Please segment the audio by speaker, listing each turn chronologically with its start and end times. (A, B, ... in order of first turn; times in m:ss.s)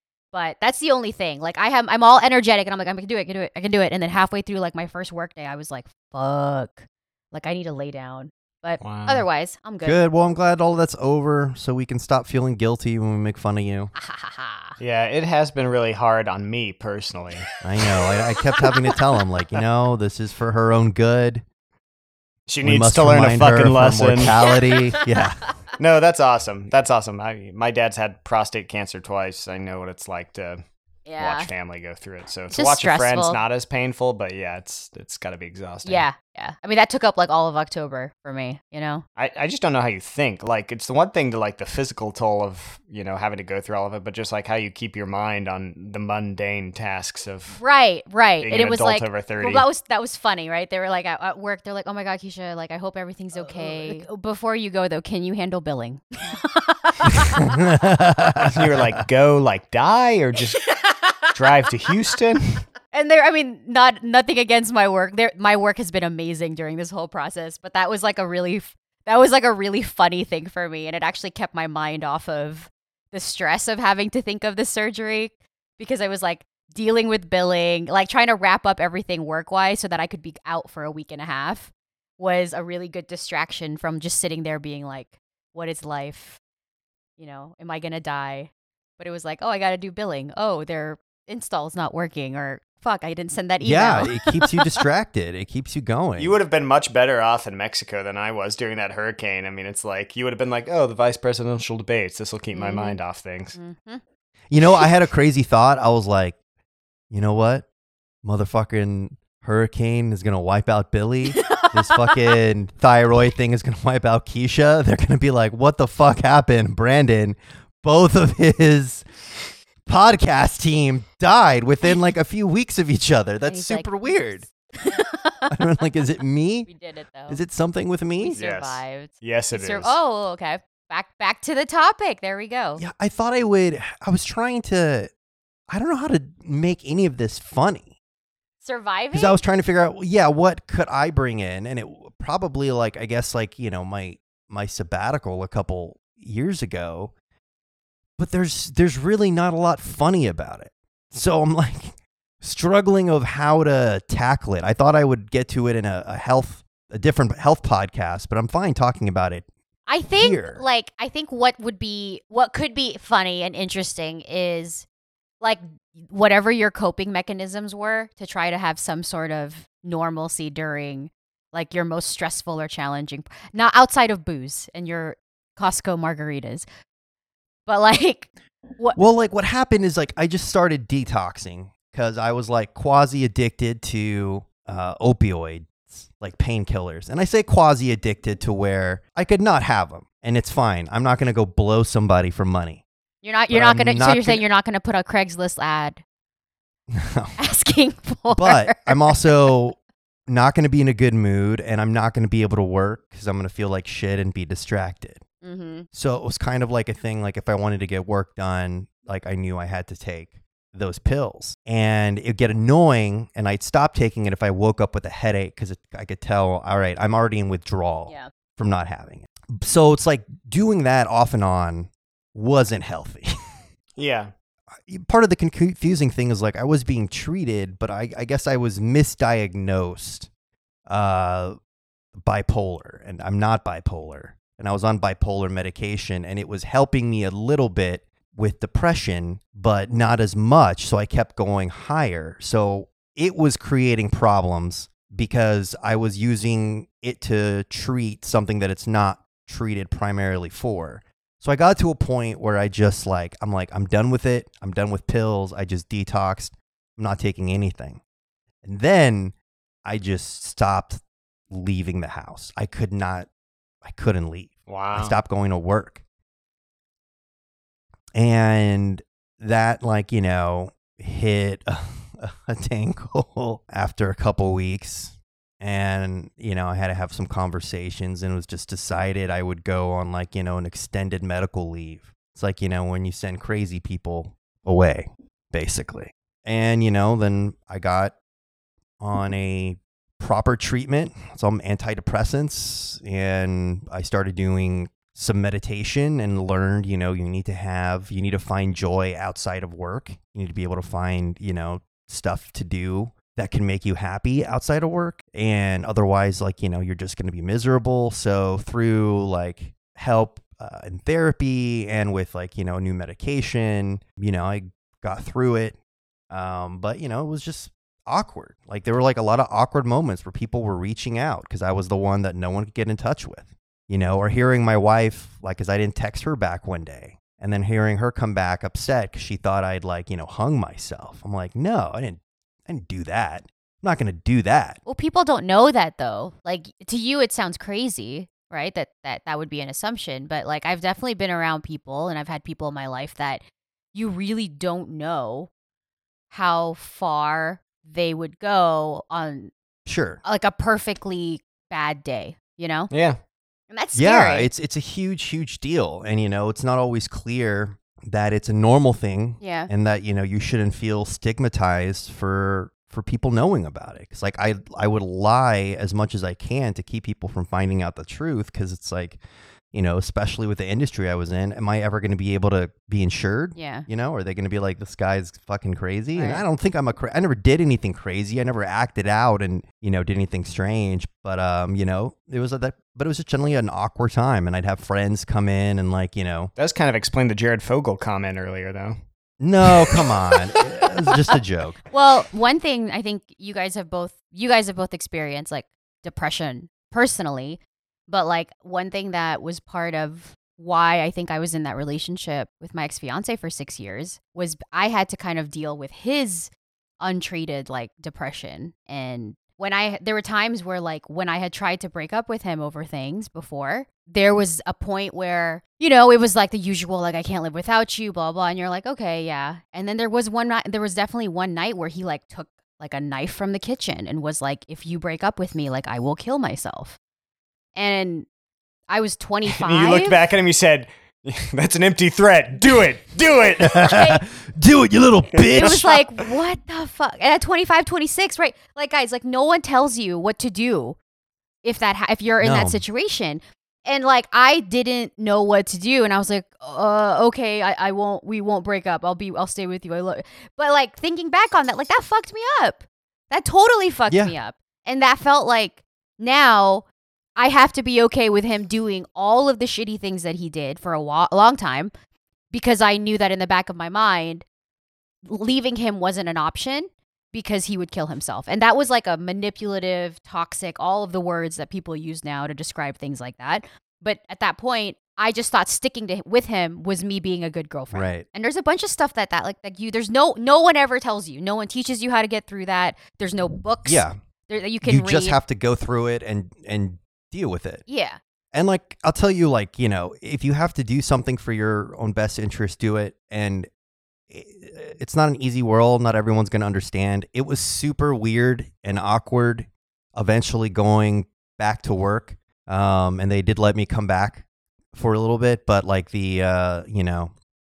0:00.3-0:10.0 A
0:08.8-0:09.2 B
0:09.8-0:13.9 C
0:14.0-0:14.8 A
0:14.8-0:17.4 B
0:17.6-0:21.4 C
0:18.6-0:18.9 A
0:22.5-0:24.4 B
0:22.6-0:25.4 C
0:24.4-0:25.2 A
0:25.8-0:30.6 B
0:31.1-0:31.5 A
0:31.2-0:36.0 B
0:32.5-0:33.4 A
0:35.8-0:39.0 A
0:39.2-0:47.6 B
0:47.6-0:57.6 A
0:48.4-0:49.6 B
0:57.4-0:58.8 C
0:58.4-1:00.6 B
1:00.6-1:01.3 A
1:01.3-1:02.6 B
1:02.9-1:26.4 A
1:27.2-1:34.8 A
1:33.6-1:36.4 C
1:36.2-1:43.6 B
1:42.5-1:43.0 A
1:43.5-1:44.0 A
1:44.5-1:46.4 C
1:47.1-1:47.6 C
1:48.2-1:59.1 C
1:51.3-1:52.2 A
1:59.8-2:04.4 C
2:03.5-2:04.2 A
2:04.7-2:05.5 A
2:05.5-2:06.7 C
2:06.7-2:07.4 A
2:07.3-2:08.4 C
2:08.2-2:12.8 A
2:08.4-2:09.9 B
2:12.8-2:15.1 C
2:15.7-2:17.9 C
2:18.6-2:19.4 A
2:19.1-2:27.1 C
2:28.2-2:39.5 C
2:39.9-2:44.8 A
2:40.2-2:40.6 C
2:45.4-2:56.6 A
2:57.7-2:59.0 A
2:58.9-3:12.8 C
3:13.2-3:16.0 A
3:13.5-3:14.4 C
3:16.9-3:17.4 C
3:17.4-3:19.3 A
3:18.3-3:25.2 C
3:25.4-3:25.8 A
3:25.9-3:43.4 C
3:44.0-3:44.3 B
3:44.8-3:50.3 C
3:50.9-3:51.6 C
3:52.2-4:18.0 C
4:18.6-4:23.3 C
4:23.8-4:26.0 C
4:24.7-4:25.2 B
4:28.1-4:48.1 C
4:49.0-5:15.8 C
5:16.3-5:34.8 C
5:34.8-5:43.4 A
5:43.9-5:45.5 A
5:46.3-5:49.5 A
5:49.8-5:50.2 C
5:50.2-5:52.9 A
5:52.9-5:53.2 B
5:53.7-5:54.5 A
5:54.0-6:09.2 C
5:59.4-5:59.7 A
6:09.7-6:26.5 C
6:13.5-6:13.9 A
6:16.2-6:16.4 A
6:26.6-6:29.0 B
6:29.4-6:31.8 C
6:31.9-7:07.0 A
7:07.8-7:08.3 A
7:08.9-7:10.2 A
7:09.5-7:13.8 B
7:13.6-7:16.0 C
7:13.7-7:14.2 A
7:15.3-7:15.9 B
7:15.5-7:21.0 A
7:21.6-7:36.8 A
7:22.4-7:22.8 C
7:34.1-7:34.3 C
7:37.4-7:41.9 A
7:42.5-7:44.4 A
7:45.2-8:05.4 A
7:57.9-7:58.2 C
8:03.8-8:04.1 C
8:04.8-8:07.8 C
8:07.9-8:08.2 A
8:08.5-8:13.7 C
8:14.3-8:27.3 C